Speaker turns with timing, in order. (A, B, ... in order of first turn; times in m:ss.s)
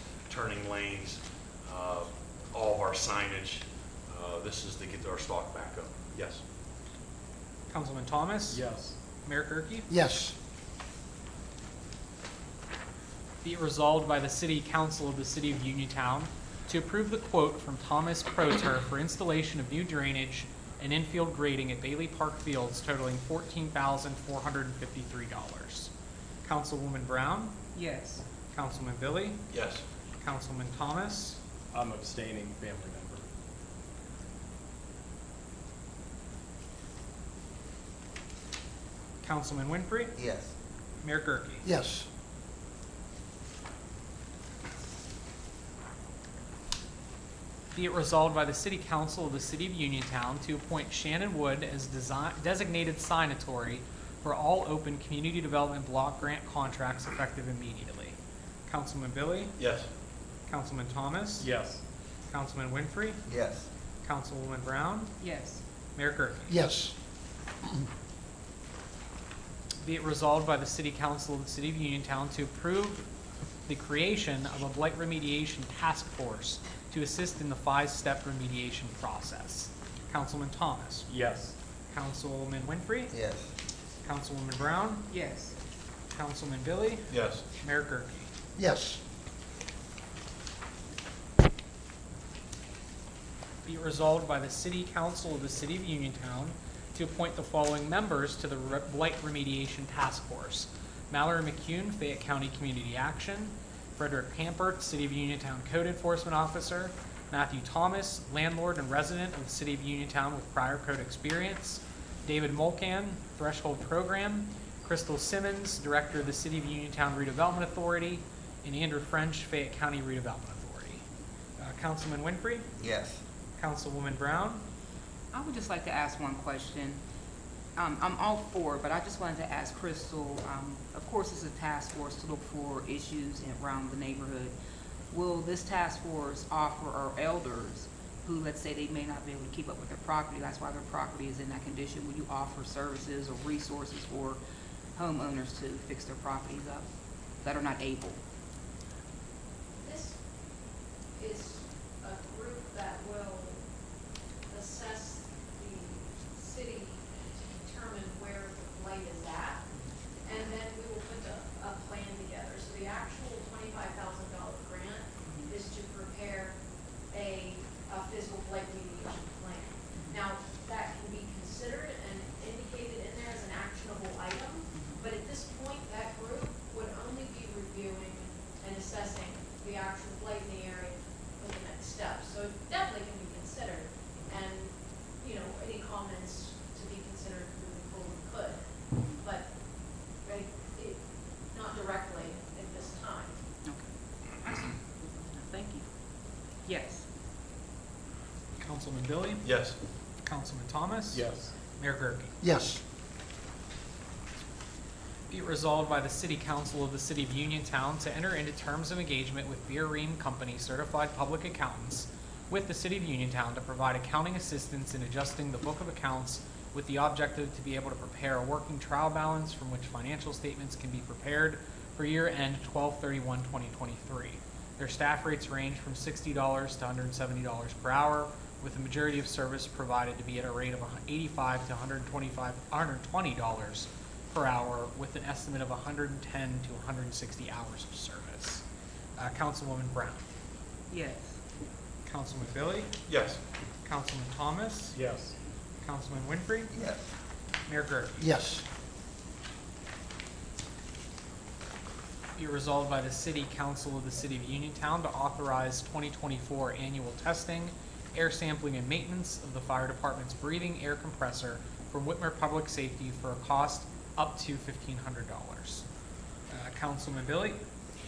0:00.3-0:06.4 A
0:07.7-0:08.7 B
0:08.5-0:09.0 C
0:09.2-0:09.9 B
0:09.9-0:10.4 D
0:13.4-0:25.9 B
0:26.4-0:27.6 B
0:27.7-0:28.2 E
0:28.5-0:29.4 B
0:29.5-0:29.8 A
0:30.2-0:31.4 B
0:31.7-0:33.2 C
0:39.2-0:40.2 B
0:40.2-0:40.5 D
0:41.0-0:41.7 B
0:41.6-0:42.1 D
0:47.7-0:59.6 B
0:59.6-0:59.9 A
1:00.5-1:01.5 B
1:01.4-1:01.8 C
1:02.3-1:03.2 B
1:03.3-1:03.7 D
1:04.0-1:05.2 B
1:05.2-1:05.6 E
1:06.0-1:06.6 B
1:06.5-1:06.9 D
1:09.8-1:13.0 B
1:13.7-1:21.1 B
1:21.1-1:21.6 C
1:21.9-1:23.2 B
1:23.1-1:23.5 D
1:24.0-1:25.1 B
1:25.1-1:25.6 E
1:26.1-1:28.3 B
1:27.1-1:27.4 A
1:28.6-1:29.0 D
1:33.6-2:01.0 B
2:01.6-2:02.7 B
2:02.8-2:03.2 D
2:03.6-2:04.6 B
2:05.3-2:07.0 E
2:07.8-2:14.5 E
2:15.1-2:24.4 E
2:24.9-2:26.9 E
2:27.4-2:28.2 E
2:29.8-2:30.2 F
2:31.1-2:33.6 F
2:34.5-2:39.6 F
2:40.2-2:46.6 F
2:45.2-2:45.5 E
2:47.1-3:08.6 F
2:49.9-2:50.2 E
2:54.7-2:55.1 E
3:09.2-3:09.5 F
3:10.2-3:13.4 F
3:14.4-3:15.8 E
3:16.6-3:17.0 E
3:18.6-3:19.6 B
3:19.4-3:19.8 A
3:20.2-3:22.4 B
3:21.1-3:21.6 C
3:22.4-3:22.8 D
3:25.3-3:58.6 B
3:59.2-4:00.2 B
4:00.9-4:01.4 E
4:02.0-4:03.0 B
4:03.1-4:03.4 A
4:03.8-4:05.0 B
4:04.9-4:05.4 C
4:05.8-4:06.7 B
4:06.7-4:07.1 D
4:07.7-4:08.3 B
4:08.2-4:08.6 D
4:12.4-4:25.8 B
4:26.5-4:27.6 B